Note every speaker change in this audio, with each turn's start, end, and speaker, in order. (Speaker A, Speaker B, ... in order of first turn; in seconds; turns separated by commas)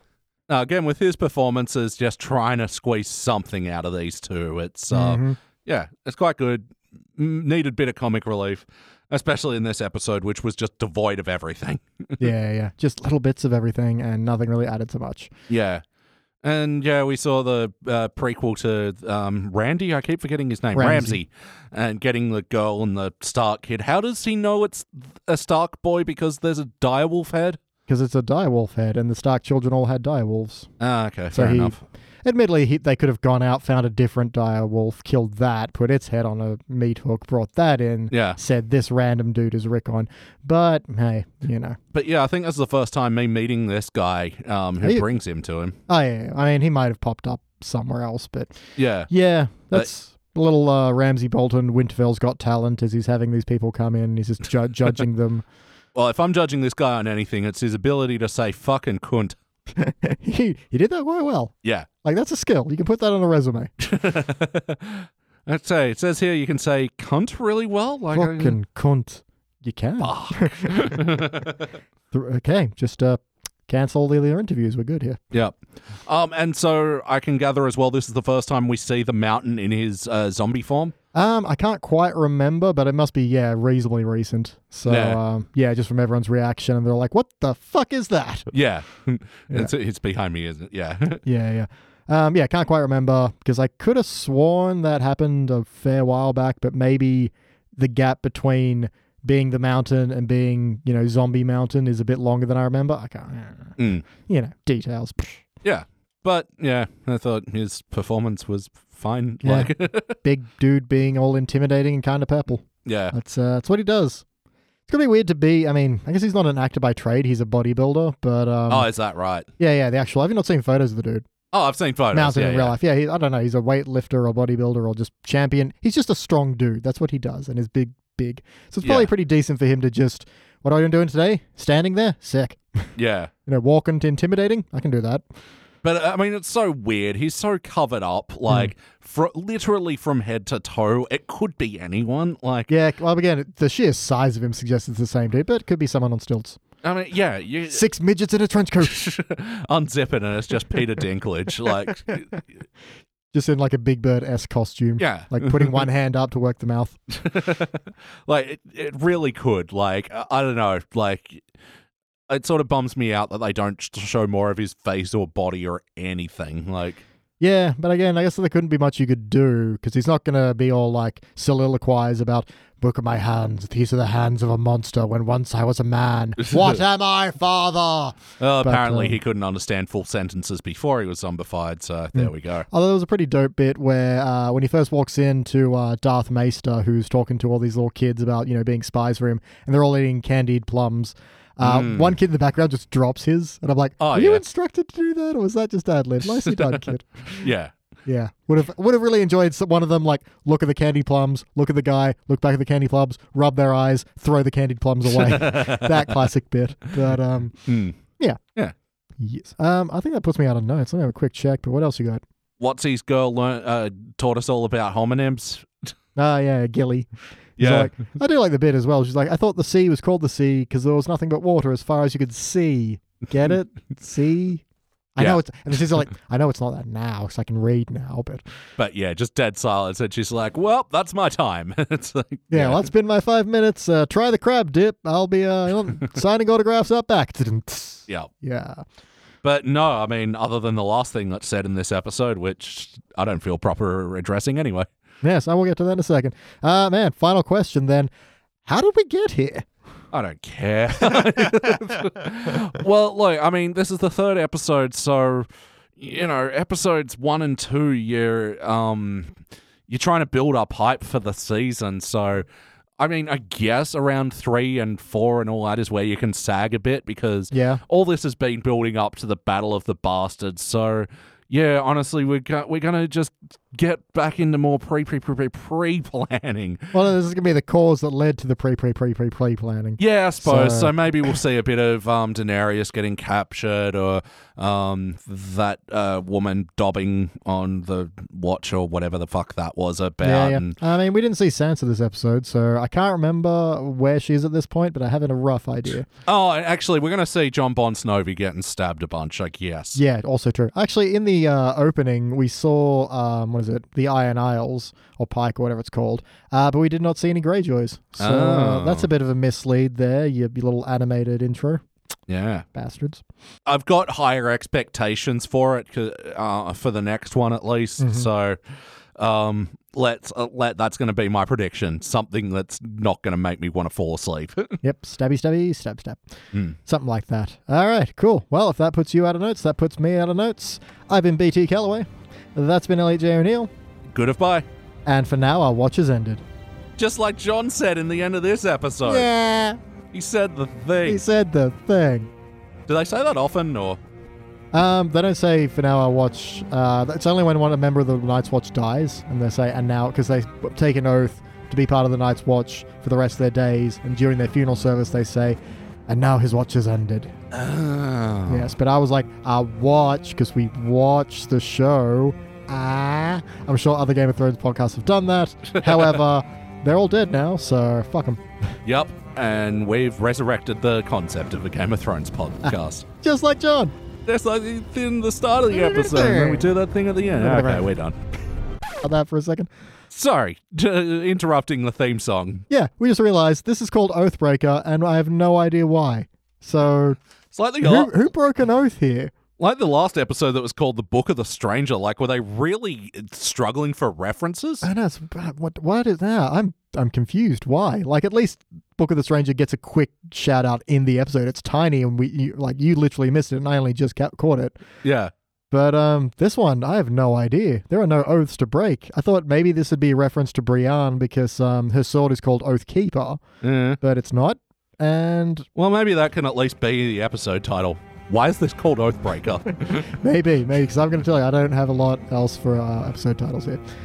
Speaker A: 0.5-12.3, Speaker B: 4.9-5.4, Speaker B: 12.2-15.3, Speaker A: 15.5-15.8, Speaker A: 16.4-27.6, Speaker B: 20.8-21.2, Speaker B: 27.9-30.7, Speaker A: 30.8-31.8, Speaker B: 31.3-41.8, Speaker A: 38.1-38.4, Speaker A: 41.9-45.8, Speaker B: 45.9-55.5, Speaker A: 48.8-49.1, Speaker A: 56.0-59.4, Speaker B: 59.8-63.7, Speaker A: 63.8-68.6, Speaker B: 68.2-71.3, Speaker A: 70.0-71.7, Speaker B: 72.1-75.2, Speaker A: 75.3-80.9, Speaker B: 81.1-88.5, Speaker A: 84.9-85.2, Speaker A: 88.5-91.2, Speaker B: 91.2-105.4, Speaker A: 103.8-104.0, Speaker A: 105.6-110.2, Speaker B: 109.4-114.2, Speaker A: 112.8-113.1, Speaker B: 114.9-118.9, Speaker A: 118.7-119.5, Speaker B: 119.6-121.3, Speaker A: 121.5-122.8, Speaker B: 122.1-132.9, Speaker A: 128.8-129.1, Speaker A: 133.0-133.3, Speaker B: 133.5-135.2, Speaker A: 135.8-142.7, Speaker B: 142.7-146.6, Speaker A: 146.8-147.8, Speaker B: 147.7-149.0, Speaker A: 148.8-152.3, Speaker B: 152.1-152.4, Speaker B: 153.3-157.0, Speaker A: 155.0-155.8, Speaker A: 157.1-161.5, Speaker A: 162.3-167.0, Speaker B: 167.4-179.2, Speaker A: 176.4-176.8, Speaker A: 178.4-182.7, Speaker B: 182.2-197.5, Speaker A: 191.6-192.2, Speaker A: 194.0-194.4, Speaker A: 196.4-196.8, Speaker A: 197.4-197.7, Speaker B: 198.1-207.6, Speaker A: 205.1-206.2, Speaker A: 207.7-208.0, Speaker B: 209.2-212.2, Speaker A: 212.6-215.9, Speaker B: 216.2-224.6, Speaker A: 217.6-217.9, Speaker B: 225.2-228.4, Speaker A: 228.8-232.8, Speaker B: 232.5-238.8, Speaker A: 239.4-244.9, Speaker B: 245.2-248.1, Speaker B: 248.7-249.7, Speaker A: 250.1-262.4, Speaker A: 263.0-276.9, Speaker B: 267.5-267.8, Speaker B: 276.9-281.4, Speaker A: 280.0-290.8, Speaker B: 290.2-296.1, Speaker A: 296.3-300.0, Speaker B: 299.9-311.8, Speaker A: 308.2-309.1, Speaker A: 312.3-312.7, Speaker B: 312.7-313.2, Speaker A: 313.7-318.6, Speaker B: 318.0-318.3, Speaker A: 319.2-324.8, Speaker B: 324.8-326.2, Speaker B: 326.8-333.7, Speaker A: 334.1-334.7, Speaker B: 335.1-336.4, Speaker A: 337.0-339.3, Speaker B: 339.0-339.8, Speaker A: 340.1-341.2, Speaker B: 341.1-342.3, Speaker A: 342.9-344.0, Speaker B: 344.7-355.6, Speaker B: 356.1-357.4, Speaker A: 357.5-358.7, Speaker B: 358.5-368.4, Speaker A: 365.9-366.2, Speaker A: 368.9-373.1, Speaker B: 372.7-373.9, Speaker A: 374.3-378.2, Speaker B: 375.7-376.7, Speaker B: 377.4-377.9, Speaker B: 379.0-379.7, Speaker A: 380.1-382.6, Speaker B: 382.7-387.2, Speaker A: 387.5-388.1, Speaker B: 387.8-389.3, Speaker A: 389.6-394.9, Speaker B: 394.8-404.8, Speaker A: 405.0-405.3, Speaker B: 405.7-413.4, Speaker A: 413.6-414.0, Speaker B: 414.0-415.7, Speaker A: 415.8-420.1, Speaker B: 419.9-423.8